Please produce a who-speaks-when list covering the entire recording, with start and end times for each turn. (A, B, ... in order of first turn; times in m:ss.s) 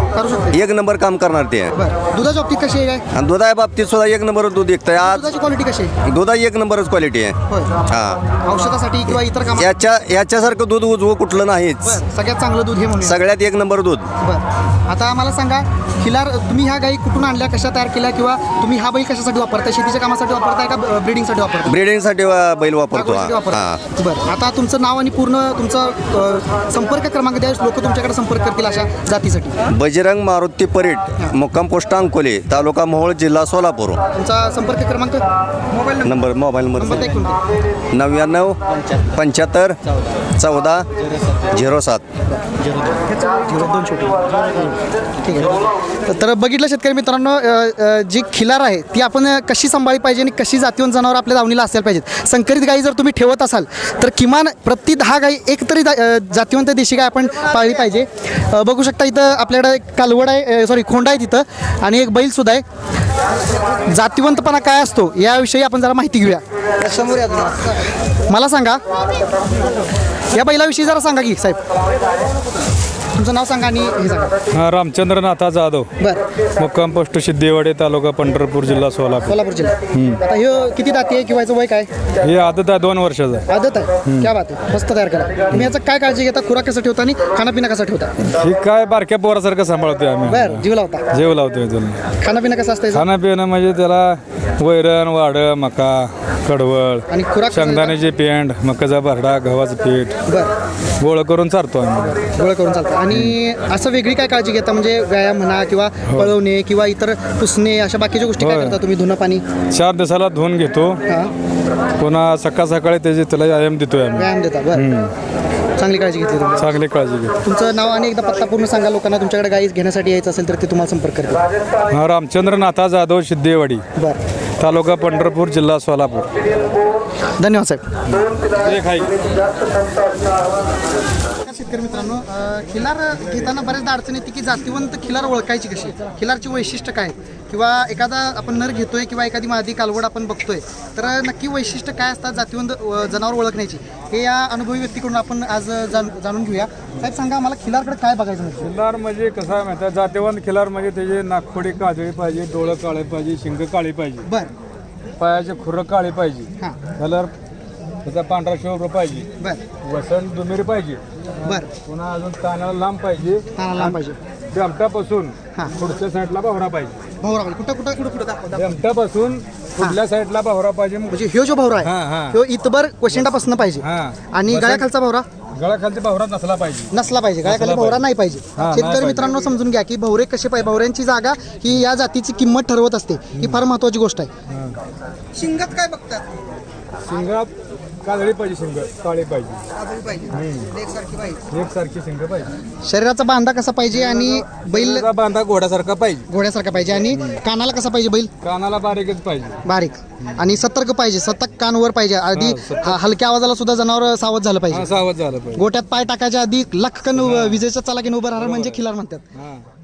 0:00.1-0:00.6 A
0:00.5-0:01.7 B
0:01.7-0:03.0 A
0:03.1-0:05.2 B
0:05.0-0:05.9 A
0:06.0-0:07.4 B
0:07.5-0:07.8 A
0:07.9-0:08.2 B
0:08.4-0:09.8 A
0:09.6-0:12.0 B
0:11.8-0:13.2 A
0:13.0-0:14.1 B
0:14.2-0:21.8 A
0:21.7-0:23.8 B
0:22.9-0:29.6 A
0:29.7-0:34.0 B
0:34.1-0:35.2 A
0:36.0-0:37.1 B
0:36.8-0:37.4 A
0:37.9-0:42.0 B
0:42.3-1:02.6 A
1:03.8-1:08.8 A
1:10.3-1:11.6 A
1:13.1-1:14.3 A
1:14.5-1:15.9 C
1:16.6-1:19.4 C
1:19.2-1:21.9 A
1:19.9-1:20.2 C
1:22.2-1:23.4 C
1:23.5-1:28.1 A
1:28.2-1:32.0 C
1:30.2-1:31.1 A
1:32.2-1:33.0 A
1:32.9-1:40.1 C
1:37.1-1:37.9 A
1:40.2-1:40.5 A
1:41.0-1:42.1 C
1:42.2-1:49.4 A
1:46.1-1:46.3 C
1:48.4-1:48.8 C
1:49.7-1:51.0 C
1:51.0-1:51.3 A
1:52.0-1:55.1 C
1:54.1-1:54.9 A
1:55.8-1:56.7 A
1:56.6-1:57.4 C
1:57.4-2:01.4 A
2:01.9-2:03.8 C
2:04.6-2:06.3 C
2:07.4-2:07.8 A
2:08.5-2:09.1 C
2:11.4-2:28.7 A
2:28.6-2:34.2 C
2:34.2-2:34.5 A
2:35.2-2:37.3 C
2:38.0-2:39.3 C
2:39.4-2:39.6 A
2:39.8-2:44.0 C
2:41.4-2:41.7 A
2:43.5-2:44.2 A
2:44.5-2:47.0 C
2:47.2-2:48.7 A
2:48.5-2:51.1 C
2:51.1-2:55.2 A
2:51.8-2:52.4 C
2:53.8-2:54.8 C
2:55.6-2:56.9 C
2:56.9-3:04.3 A
2:57.4-2:58.0 C
2:58.6-2:59.3 C
3:04.5-3:04.8 C
3:05.3-3:06.2 A
3:07.0-3:07.5 C
3:08.0-3:09.6 C
3:09.8-3:11.4 A
3:10.3-3:10.7 C
3:11.5-3:12.5 C
3:12.8-3:15.1 A
3:13.9-3:16.3 C
3:16.3-3:18.3 A
3:17.0-3:17.4 C
3:18.4-3:19.6 C
3:19.6-3:24.9 A
3:22.3-3:23.0 C
3:24.7-3:25.6 C
3:25.5-3:29.2 A
3:27.1-3:27.6 C
3:28.4-3:28.8 C
3:29.3-3:29.6 C